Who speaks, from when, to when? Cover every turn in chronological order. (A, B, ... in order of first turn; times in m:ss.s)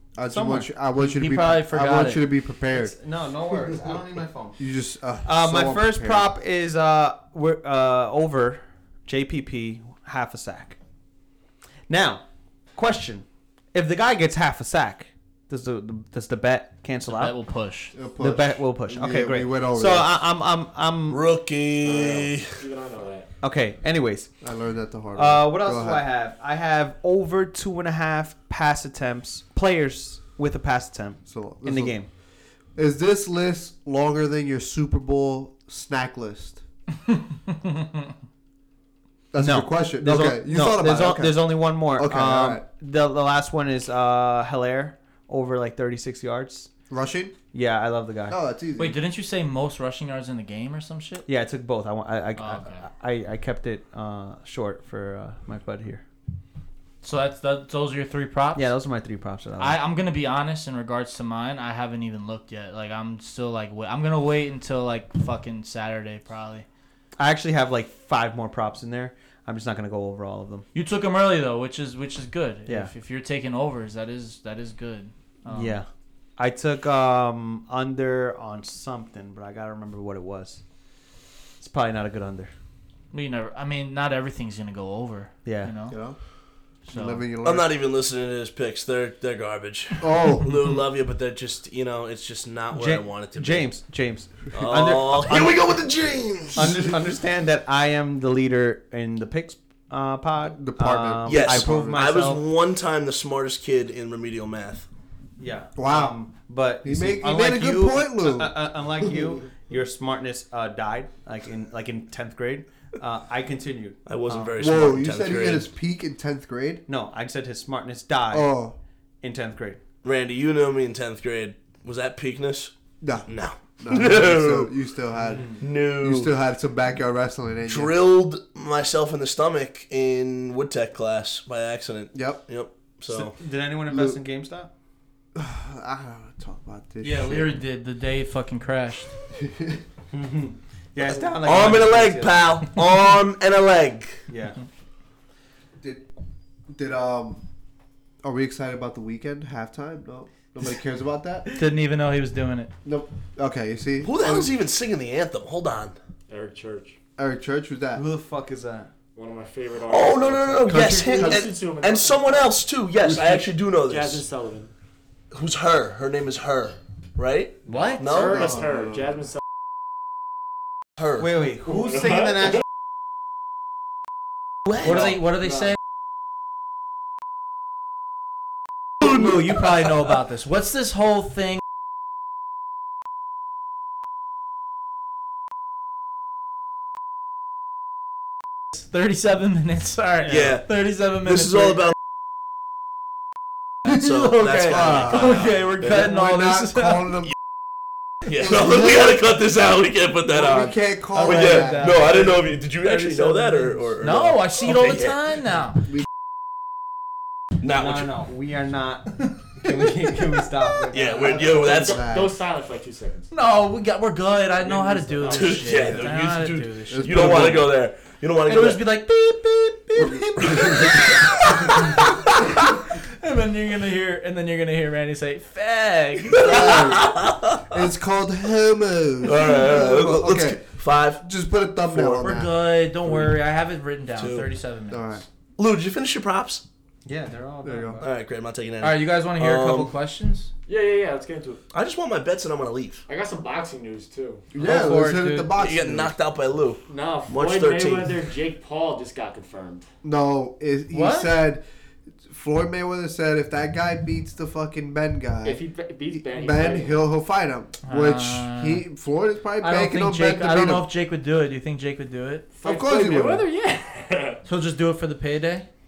0:00.2-0:02.9 A
0:00.3-0:00.7 B
0:01.0-0:02.2 C
0:02.7-0:04.6 B
0:04.6-0:06.3 A
0:05.2-0:10.8 B
0:11.9-0:12.2 B
0:12.8-0:17.4 B
0:17.1-0:17.9 C
0:17.9-0:20.2 A
0:18.2-0:21.2 B
0:21.1-0:22.6 D
0:21.9-0:23.3 E
0:23.4-0:24.3 B
0:24.4-0:26.0 A
0:25.1-0:32.1 B
0:31.3-0:32.0 A
0:32.8-0:36.6 A
0:37.1-0:38.1 C
0:39.3-0:42.6 A
0:39.4-0:46.7 B
0:46.9-0:47.4 A
0:47.5-0:48.4 B
0:48.3-0:49.0 A
0:48.8-0:51.2 C
0:51.3-0:56.0 B
0:52.4-0:52.8 C
0:57.0-0:58.7 C
0:58.6-0:59.8 B
0:59.6-1:06.7 C
1:07.2-1:10.7 B
1:10.7-1:15.8 C
1:12.7-1:12.9 B
1:15.5-1:20.6 B
1:21.6-1:22.5 B
1:23.1-1:26.0 C
1:25.4-1:25.7 B
1:25.9-1:26.2 A
1:26.9-1:27.2 C
1:26.9-1:27.7 A
1:27.4-1:33.7 D
1:30.0-1:30.6 A
1:32.7-1:35.6 B
1:34.5-1:37.0 D
1:36.6-1:42.4 B
1:40.6-1:42.0 A
1:41.3-1:44.9 D
1:45.4-1:54.6 B
1:45.8-1:46.2 A
1:46.8-1:48.5 A
1:54.1-1:55.7 D
1:54.6-1:56.8 A
1:56.9-1:58.5 B
1:58.3-1:58.8 A
1:59.2-1:59.8 B
2:00.0-2:02.7 D
2:03.0-2:03.3 A
2:03.3-2:04.7 D
2:03.8-2:07.9 A
2:05.2-2:05.6 B
2:05.6-2:06.3 D
2:07.7-2:13.3 D
2:12.1-2:12.4 A
2:13.1-2:14.7 B
2:13.9-2:14.2 A
2:15.4-2:17.5 A
2:17.0-2:19.1 C
2:19.4-2:19.8 A
2:20.1-2:22.4 B
2:21.3-2:24.2 D
2:24.3-2:24.6 B
2:26.7-2:27.4 A
2:28.2-2:31.5 A
2:31.5-2:32.7 C
2:32.8-2:34.5 A
2:34.0-2:36.0 D
2:36.3-2:37.0 E
2:37.2-2:38.0 A
2:38.0-2:38.9 B
2:39.2-2:42.5 E
2:39.9-2:44.2 D
2:40.7-2:41.5 A
2:43.0-2:43.5 A
2:43.9-2:44.7 E
2:45.3-2:48.6 D
2:47.7-2:48.1 C
2:47.7-2:49.4 E
2:48.2-2:49.1 A
2:51.2-2:52.6 B
2:54.7-2:55.1 D
2:54.8-2:55.8 C
2:59.0-3:01.6 C
3:08.7-3:11.9 C
3:10.2-3:10.6 D
3:11.3-3:12.0 D
3:13.8-3:16.1 D
3:13.9-3:17.1 C
3:14.6-3:17.3 A
3:18.3-3:25.2 D
3:18.4-3:19.1 A
3:20.3-3:21.9 A
3:21.2-3:23.9 B
3:24.0-3:25.8 C
3:27.6-3:28.2 D
3:27.7-3:31.4 B
3:30.7-3:32.4 A
3:30.9-3:32.1 D
3:31.4-3:33.3 E
3:33.3-3:37.7 C
3:34.6-3:36.0 E
3:35.3-3:38.9 D
3:36.9-3:37.7 A
3:38.5-3:46.7 C
3:40.0-3:41.0 A
3:40.6-3:41.7 D
3:46.3-3:47.8 D
3:46.4-3:47.2 A
3:47.7-3:50.6 A
3:49.2-3:51.2 D
3:51.2-3:52.5 A
3:51.8-3:52.3 D
3:52.2-3:55.2 C
3:54.2-3:54.5 D
3:54.9-3:55.2 A
3:55.6-3:56.6 D
3:57.0-3:58.1 B
3:57.6-3:58.0 A
3:58.0-3:59.9 D
3:58.8-4:00.5 C
4:00.7-4:01.6 E
4:01.7-4:03.0 D
4:03.1-4:04.5 E
4:04.5-4:06.1 A
4:04.6-4:05.5 C
4:05.6-4:08.2 D
4:06.9-4:09.9 E
4:10.0-4:11.6 A
4:10.9-4:11.4 C
4:12.3-4:20.9 A
4:15.4-4:17.0 E
4:17.8-4:18.8 C
4:19.6-4:22.5 C
4:22.6-4:24.4 E
4:22.6-4:23.5 A
4:24.4-4:25.7 C